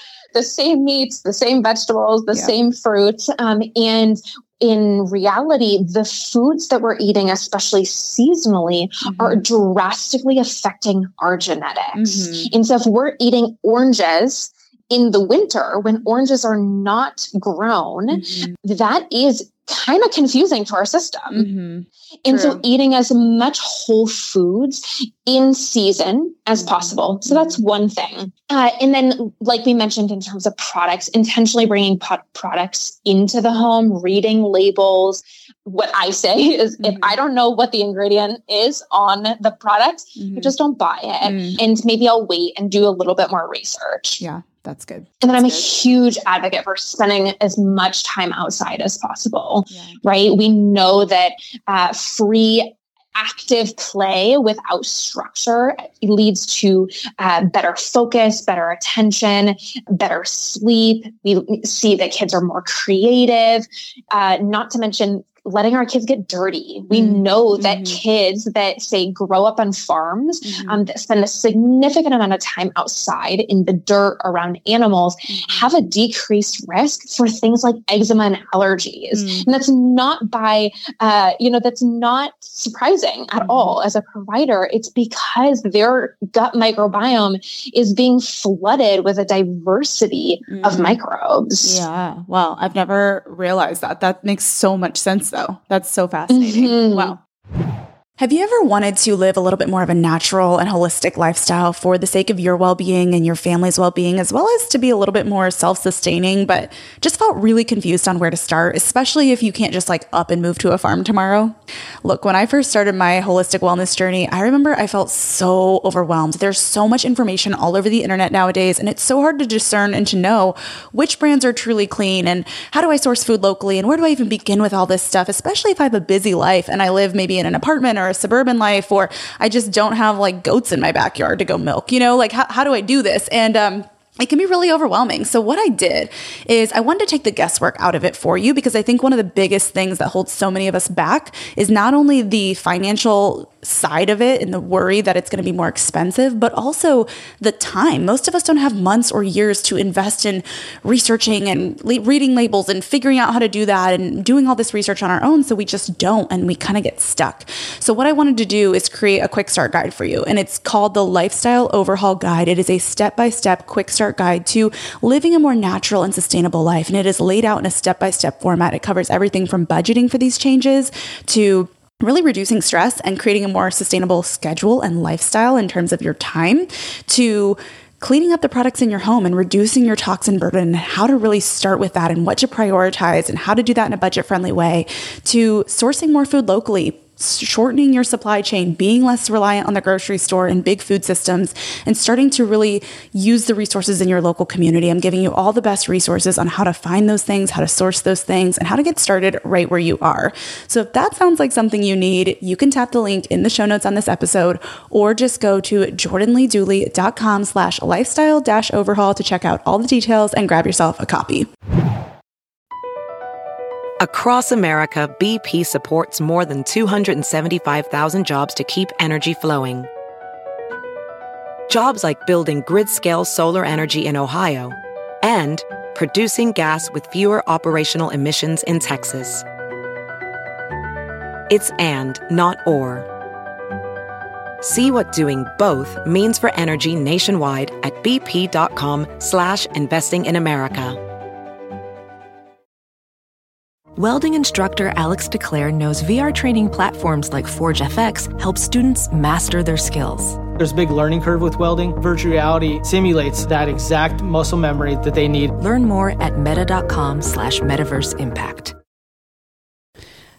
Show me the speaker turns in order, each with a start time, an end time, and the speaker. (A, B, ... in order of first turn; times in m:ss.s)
0:00.3-0:21.5 A
0:09.0-0:09.4 B
0:11.9-0:12.5 B
0:18.1-0:18.5 B
0:21.3-0:22.6 B
0:22.2-0:44.2 A
0:26.6-0:27.6 B
0:36.8-0:37.2 B
0:40.2-0:40.5 B
0:41.2-0:41.6 B
0:44.2-0:45.7 B
0:45.2-1:31.8 A
0:49.7-0:50.0 B
1:06.9-1:08.0 B
1:10.4-1:10.8 B
1:15.3-1:15.7 B
1:19.1-1:19.5 B
1:23.4-1:23.8 B
1:30.5-1:31.0 B
1:31.6-1:37.2 B
1:36.3-1:37.2 A
1:38.2-3:31.5 B
3:34.0-3:39.9 C
3:41.7-3:49.4 C
3:51.5-3:53.1 C
3:54.6-4:01.0 C
4:04.0-4:10.4 D
4:10.6-4:15.5 E
4:15.5-4:18.7 D